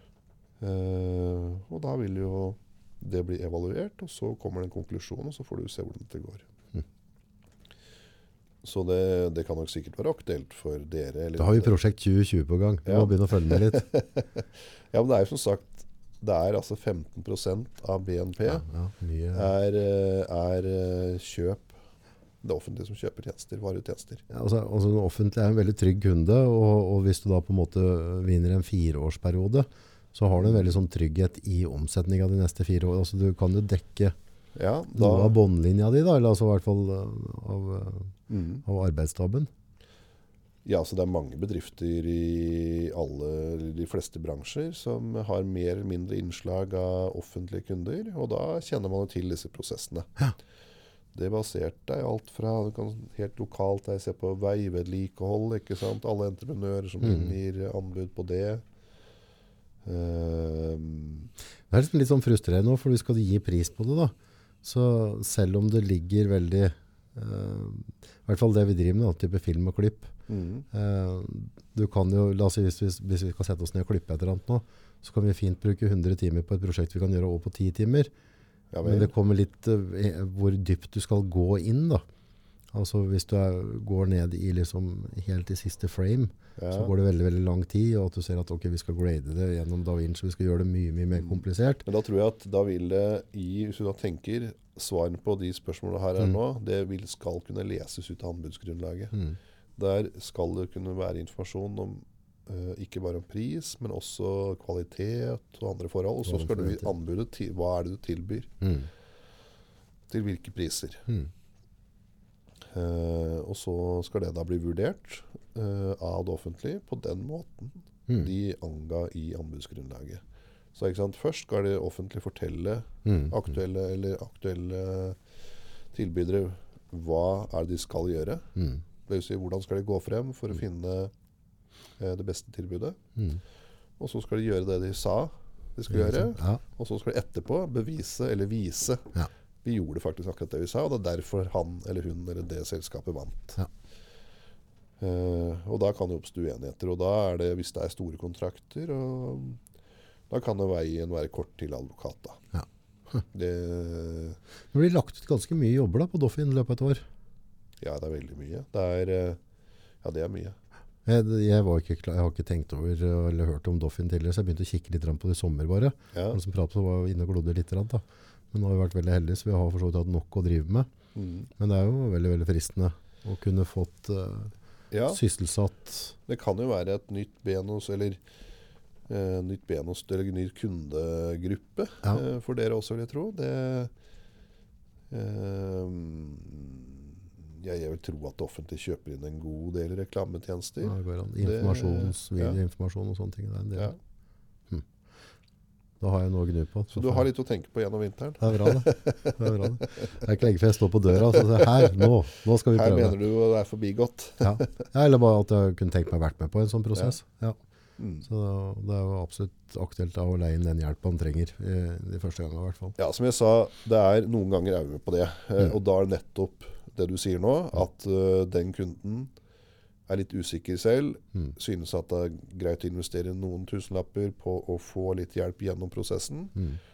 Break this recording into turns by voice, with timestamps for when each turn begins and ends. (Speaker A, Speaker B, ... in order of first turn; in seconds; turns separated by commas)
Speaker A: 0.6-6.5, Speaker A: 8.6-11.8, Speaker B: 11.4-13.9, Speaker A: 12.9-18.6, Speaker B: 18.5-19.5, Speaker A: 19.3-21.8, Speaker A: 22.4-24.2, Speaker B: 24.3-34.1, Speaker A: 30.4-30.7, Speaker A: 34.6-35.4, Speaker B: 35.0-39.5, Speaker A: 38.3-38.6, Speaker A: 40.6-50.1, Speaker A: 51.1-58.6, Speaker B: 57.0-57.4, Speaker A: 59.9-61.3, Speaker B: 61.7-70.1, Speaker A: 70.3-70.7, Speaker B: 70.7-78.1, Speaker A: 78.7-79.1, Speaker B: 78.8-82.0, Speaker B: 82.7-91.8, Speaker A: 86.6-86.9, Speaker A: 91.2-99.2, Speaker A: 99.8-108.5, Speaker B: 106.3-106.9, Speaker B: 108.6-108.9, Speaker A: 110.1-111.1, Speaker A: 112.7-120.2, Speaker A: 120.8-125.2, Speaker B: 123.1-123.4, Speaker A: 125.9-128.5, Speaker B: 128.6-128.8, Speaker A: 129.1-131.1, Speaker A: 132.0-133.0, Speaker A: 134.0-139.1, Speaker B: 135.9-136.6, Speaker A: 139.6-143.6, Speaker A: 145.0-149.6, Speaker A: 150.3-152.4, Speaker B: 152.6-153.2, Speaker A: 153.3-154.4, Speaker B: 154.7-157.1, Speaker A: 157.8-159.4, Speaker A: 160.0-160.6, Speaker B: 161.1-170.9, Speaker A: 166.1-166.4, Speaker A: 171.2-171.5, Speaker B: 171.6-174.5, Speaker A: 174.9-175.2, Speaker B: 175.1-176.2, Speaker A: 176.3-178.2, Speaker A: 179.1-183.9, Speaker A: 185.1-192.6, Speaker B: 190.8-193.9, Speaker B: 196.0-197.3, Speaker A: 196.9-200.2, Speaker B: 198.4-203.2, Speaker A: 201.2-202.1, Speaker A: 202.7-204.8, Speaker B: 204.4-207.6, Speaker A: 208.0-208.3, Speaker B: 208.2-212.9, Speaker A: 213.0-219.3, Speaker A: 220.1-226.6